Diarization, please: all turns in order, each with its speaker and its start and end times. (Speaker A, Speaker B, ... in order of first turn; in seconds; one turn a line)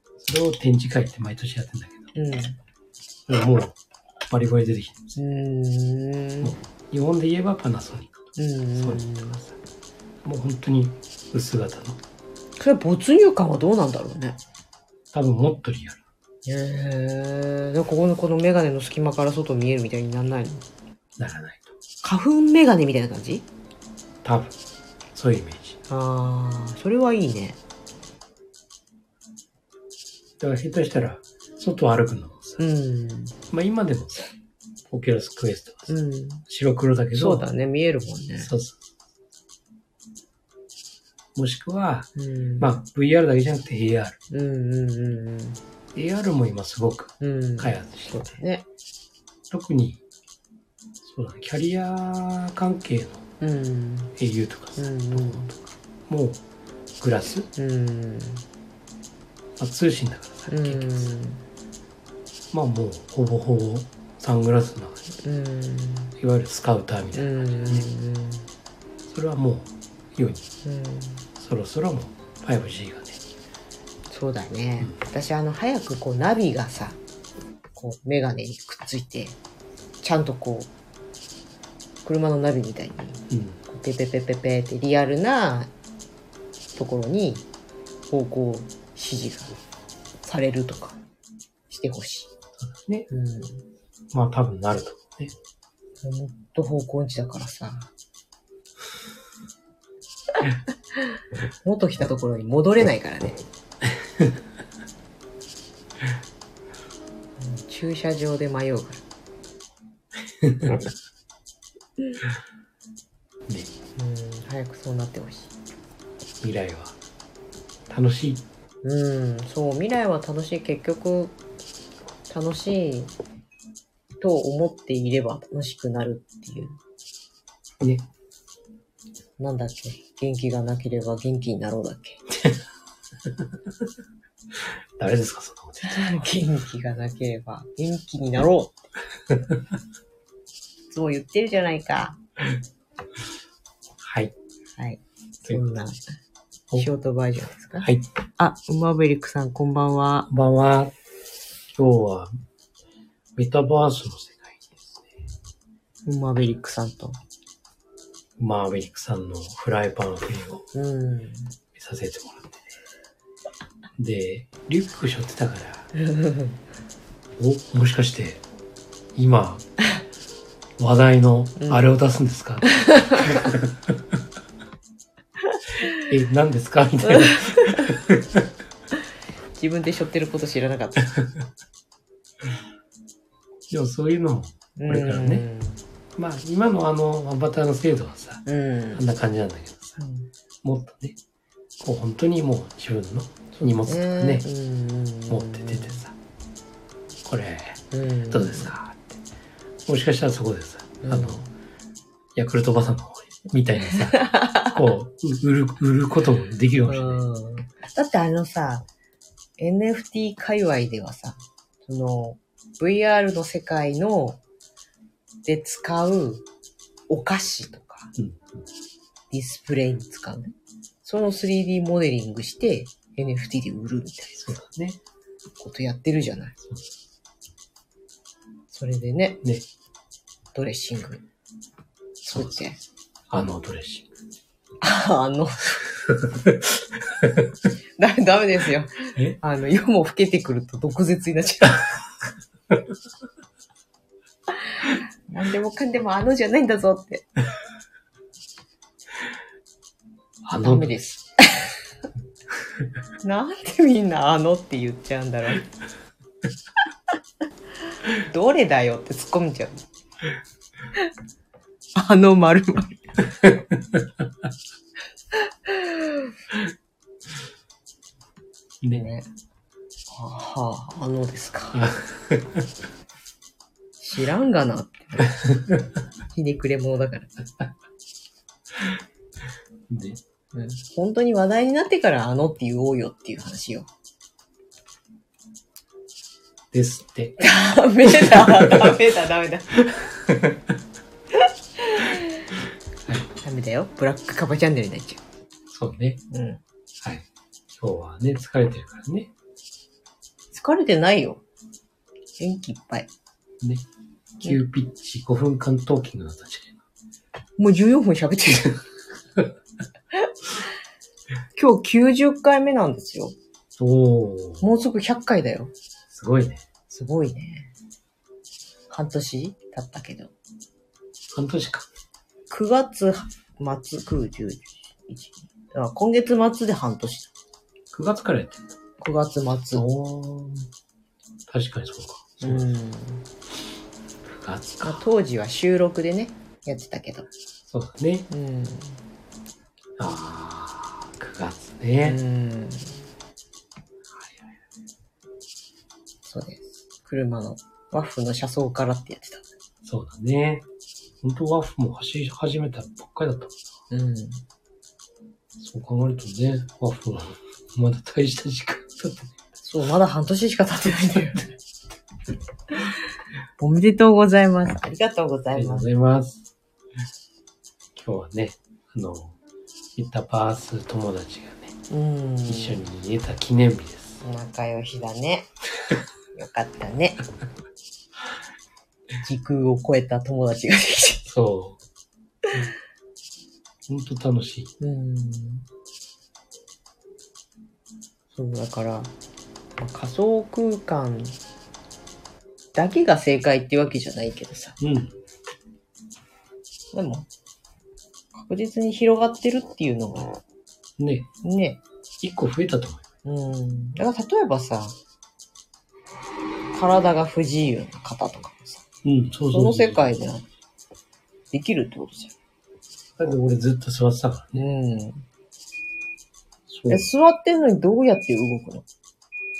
Speaker A: 0.2-2.1
Speaker B: 2.1-2.6
Speaker A: 3.3-3.8
Speaker A: 4.3-5.2
Speaker B: 5.2-6.5
Speaker A: 6.4-9.6
Speaker B: 8.3-9.4
Speaker A: 10.2-12.0
Speaker B: 12.6-14.4
Speaker A: 15.1-16.0
Speaker B: 16.4-20.6
Speaker A: 21.2-21.7
Speaker B: 22.0-23.5
Speaker A: 24.2-24.6
Speaker A: 25.1-25.8
Speaker B: 25.9-27.6
Speaker A: 30.4-32.6
Speaker B: 32.6-33.3
Speaker A: 33.5-34.3
Speaker A: 34.9-35.9
Speaker B: 35.9-36.4
Speaker A: 36.5-37.5
Speaker B: 37.1-38.5
Speaker A: 38.4-38.8
Speaker A: 41.4-44.2
Speaker B: 42.2-42.7
Speaker B: 44.3-45.6
Speaker A: 45.9-48.4
Speaker B: 47.2-48.6
Speaker A: 49.5-50.0
Speaker A: 51.0-53.2
Speaker B: 53.4-54.1
Speaker A: 54.2-56.4
Speaker B: 54.8-55.5
Speaker A: 57.0-57.5
Speaker B: 57.5-58.4
Speaker A: 59.6-61.1
Speaker B: 60.5-61.4
Speaker A: 62.5-65.1
Speaker B: 65.2-66.1
Speaker A: 66.2-67.9
Speaker B: 67.1-68.5
Speaker A: 69.0-70.4
Speaker B: 70.6-71.3
Speaker A: 71.4-73.2
Speaker B: 74.1-77.0
Speaker B: 77.8-79.4
Speaker B: 80.0-80.7
Speaker B: 82.0-85.7
Speaker A: 83.3-83.6
Speaker B: 86.7-87.5
Speaker B: 88.1-89.5
Speaker B: 90.2-91.0
Speaker B: 91.7-92.3
Speaker A: 92.6-93.1
Speaker B: 93.1-93.7
Speaker A: 94.1-95.3
Speaker B: 96.0-97.9
Speaker B: 101.6-103.4
Speaker B: 107.4-109.0
Speaker A: 110.4-110.8
Speaker B: 114.0-115.5
Speaker A: 116.4-117.0
Speaker A: 117.9-118.4
Speaker B: 118.8-121.4
Speaker B: 122.3-123.1
Speaker B: 124.2-126.8
Speaker A: 127.8-128.1
Speaker B: 129.4-132.2
Speaker A: 135.0-136.4
Speaker B: 135.8-138.9
Speaker B: 140.9-142.2
Speaker A: 144.0-144.3
Speaker B: 144.8-146.0
Speaker B: 146.8-150.3
Speaker A: 147.8-148.1
Speaker A: 150.3-150.9
Speaker A: 151.7-152.3
Speaker A: 153.3-155.1
Speaker B: 156.0-157.2
Speaker A: 158.4-160.7
Speaker B: 160.7-161.5
Speaker A: 161.7-162.7
Speaker A: 164.0-165.9
Speaker B: 166.1-166.5
Speaker A: 167.4-168.4
Speaker A: 169.1-169.6
Speaker A: 170.8-173.7
Speaker B: 171.6-171.8
Speaker B: 172.7-173.4
Speaker A: 176.1-178.4
Speaker B: 177.1-177.9
Speaker B: 179.5-181.1
Speaker A: 183.7-185.4
Speaker B: 184.8-185.8
Speaker A: 186.2-190.0
Speaker B: 188.4-189.0
Speaker B: 190.0-190.3
Speaker A: 190.6-191.2
Speaker A: 191.8-194.4
Speaker B: 193.5-196.0
Speaker A: 195.3-196.1
Speaker A: 197.2-199.2
Speaker B: 197.9-198.7
Speaker A: 199.8-201.4
Speaker B: 201.0-201.5
Speaker A: 202.3-207.2
Speaker B: 203.9-204.8
Speaker B: 206.9-208.9
Speaker B: 209.6-214.4
Speaker B: 215.4-216.5
Speaker B: 217.1-218.1
Speaker B: 219.3-224.6
Speaker A: 224.4-225.0
Speaker B: 225.6-226.6
Speaker A: 226.6-226.9
Speaker B: 228.7-229.4
Speaker B: 230.5-231.2
Speaker B: 232.2-232.8
Speaker A: 232.3-234.1
Speaker B: 234.8-235.9
Speaker B: 238.0-241.9
Speaker B: 244.8-247.3
Speaker A: 250.4-251.0
Speaker B: 250.6-251.7
Speaker B: 253.2-255.7
Speaker B: 258.1-259.8
Speaker B: 261.9-263.3
Speaker A: 263.7-264.0
Speaker B: 265.7-266.3
Speaker B: 268.9-269.3
Speaker B: 270.1-271.9
Speaker A: 271.8-272.6
Speaker B: 274.0-275.6
Speaker B: 276.3-277.3
Speaker A: 279.9-280.2
Speaker B: 280.5-283.9
Speaker A: 286.7-287.4
Speaker B: 287.4-289.8
Speaker A: 288.1-288.9
Speaker A: 290.3-290.6
Speaker B: 291.8-292.2
Speaker B: 293.4-295.2
Speaker A: 295.7-296.2
Speaker B: 296.3-296.6
Speaker A: 297.0-299.3
Speaker B: 300.5-301.4
Speaker B: 302.4-303.1
Speaker A: 303.6-303.9
Speaker A: 304.4-306.8
Speaker B: 307.6-308.8
Speaker B: 311.5-313.3
Speaker A: 313.8-314.6
Speaker B: 314.6-315.7
Speaker A: 316.1-316.6
Speaker B: 316.9-317.7
Speaker B: 318.9-320.3
Speaker A: 321.3-321.9
Speaker B: 322.5-327.3
Speaker A: 327.9-328.8
Speaker B: 329.0-329.8
Speaker A: 329.7-330.7
Speaker A: 331.5-332.8
Speaker B: 332.4-333.2
Speaker A: 334.2-335.0
Speaker B: 334.8-337.3
Speaker A: 337.7-338.3
Speaker B: 338.3-339.0
Speaker A: 340.0-342.2
Speaker B: 342.0-343.0
Speaker A: 344.1-344.5
Speaker B: 346.2-349.4
Speaker A: 349.8-350.7
Speaker A: 351.2-353.6
Speaker B: 353.9-354.4
Speaker A: 355.6-359.3
Speaker B: 359.6-361.5
Speaker B: 363.6-365.9
Speaker A: 365.5-366.5
Speaker A: 367.9-369.4
Speaker A: 369.9-371.7
Speaker B: 371.9-372.9
Speaker A: 372.5-374.2
Speaker B: 374.2-375.5
Speaker B: 376.3-377.2
Speaker B: 379.2-381.3
Speaker A: 381.3-381.8
Speaker A: 383.9-384.7
Speaker B: 384.8-385.7
Speaker B: 388.3-389.1
Speaker B: 389.8-391.4
Speaker B: 392.7-394.8
Speaker A: 394.8-395.1
Speaker B: 396.9-397.3
Speaker B: 398.3-400.4
Speaker A: 401.0-401.3
Speaker B: 401.4-401.8
Speaker A: 402.2-403.0
Speaker B: 403.2-405.0
Speaker B: 406.7-408.8
Speaker A: 409.0-410.1
Speaker B: 409.5-410.4
Speaker B: 411.5-412.3
Speaker A: 413.2-414.6
Speaker B: 414.6-415.2
Speaker A: 416.7-417.1
Speaker B: 416.9-418.8